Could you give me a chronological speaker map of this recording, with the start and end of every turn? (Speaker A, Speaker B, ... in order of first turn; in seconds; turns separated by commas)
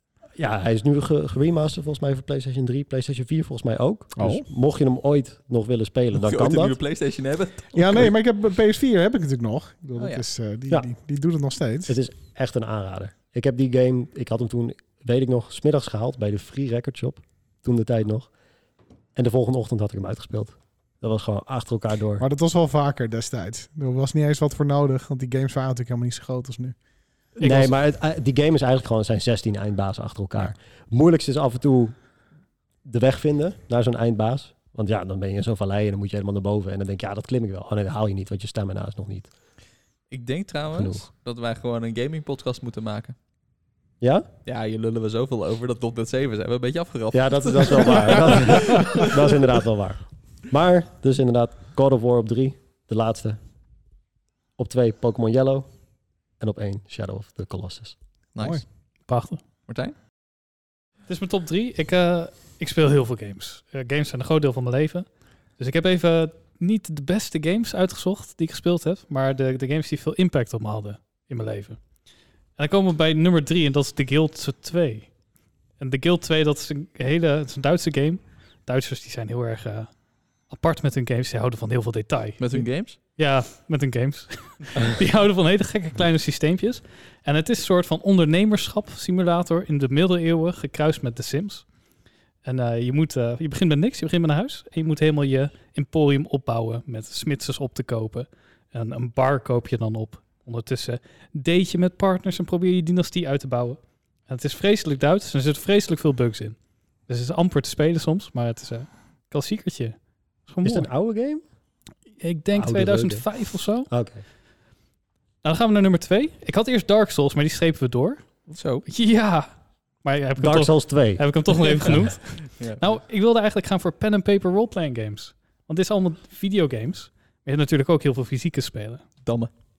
Speaker A: 0.3-6.8, Speaker B: 4.2-4.5, Speaker C: 6.1-8.1, Speaker B: 7.7-11.9, Speaker C: 10.0-10.2, Speaker A: 11.9-18.3, Speaker A: 19.1-22.2, Speaker B: 22.2-26.8, Speaker A: 27.4-31.9, Speaker B: 27.4-27.7, Speaker A: 32.8-39.3, Speaker C: 40.1-43.1, Speaker A: 40.7-41.0, Speaker A: 44.0-44.3, Speaker C: 44.5-49.1, Speaker A: 47.1-53.4, Speaker A: 54.6-55.7, Speaker A: 56.4-58.0, Speaker C: 58.3-58.6, Speaker D: 59.1-59.4, Speaker C: 59.7-59.9, Speaker D: 61.1-71.8, Speaker D: 72.6-75.1, Speaker D: 75.8-79.9, Speaker D: 80.5-91.6, Speaker C: 82.4-83.0, Speaker D: 92.4-106.5, Speaker D: 107.1-110.9, Speaker A: 110.6-111.4, Speaker D: 112.2-113.9, Speaker A: 112.5-113.3, Speaker A: 113.9-114.2, Speaker D: 115.4-119.5, Speaker C: 118.5-118.8, Speaker D: 120.0-129.0, Speaker A: 120.4-121.2, Speaker C: 129.2-129.5